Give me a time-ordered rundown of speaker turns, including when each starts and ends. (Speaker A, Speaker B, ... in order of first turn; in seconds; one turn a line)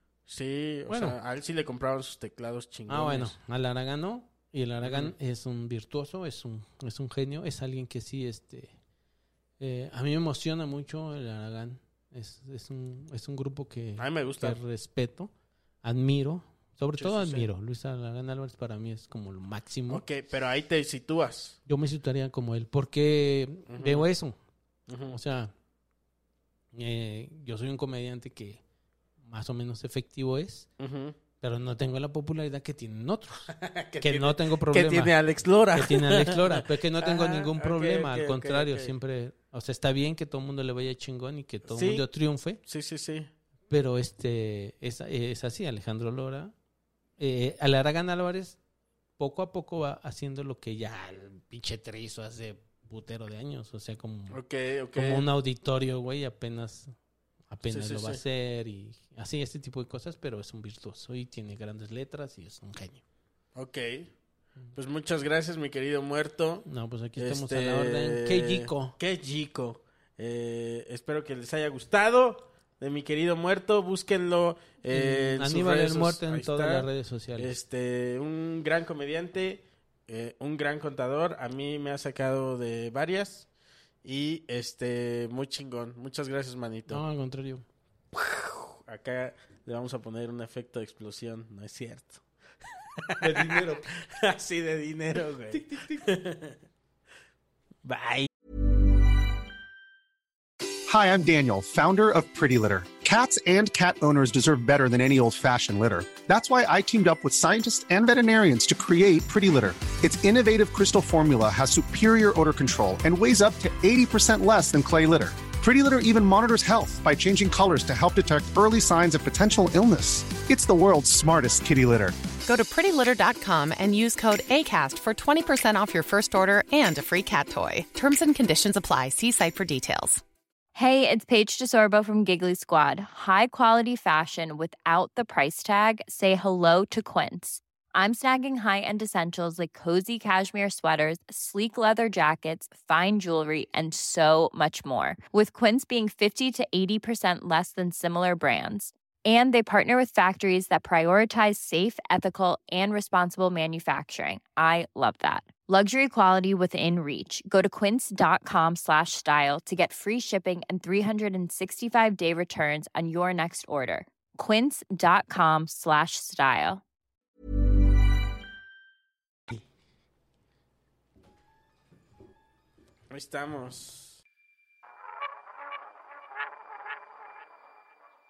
Speaker A: 0.3-3.4
Speaker B: 0.9-1.2
Speaker B: 2.9-8.7
Speaker A: 4.8-5.1
Speaker B: 9.6-15.3
Speaker A: 14.0-14.6
Speaker B: 15.8-20.0
Speaker A: 17.0-17.5
Speaker A: 19.9-21.6
Speaker B: 21.7-24.4
Speaker A: 23.7-24.1
Speaker A: 24.9-25.2
Speaker B: 25.1-25.5
Speaker B: 26.7-28.6
Speaker B: 29.2-30.7
Speaker A: 30.8-31.2
Speaker B: 31.4-35.1
Speaker A: 33.5-39.0
Speaker B: 35.7-42.6
Speaker A: 41.7-42.1
Speaker A: 42.6-43.3
Speaker B: 43.7-46.5
Speaker B: 47.2-48.6
Speaker B: 49.2-54.4
Speaker A: 54.3-55.3
Speaker B: 54.9-57.0
Speaker B: 57.5-63.0
Speaker A: 57.7-58.2
Speaker A: 63.5-64.1
Speaker A: 64.7-83.5
Speaker B: 66.7-69.0
Speaker B: 74.9-77.6
Speaker A: 84.0-87.0
Speaker B: 86.9-87.7
Speaker A: 88.1-96.6
Speaker B: 93.2-93.9
Speaker B: 95.5-96.1
Speaker A: 97.8-98.3
Speaker C: 100.9-122.2
Speaker D: 122.5-130.2
Speaker E: 130.8-166.8
Speaker A: 173.1-174.2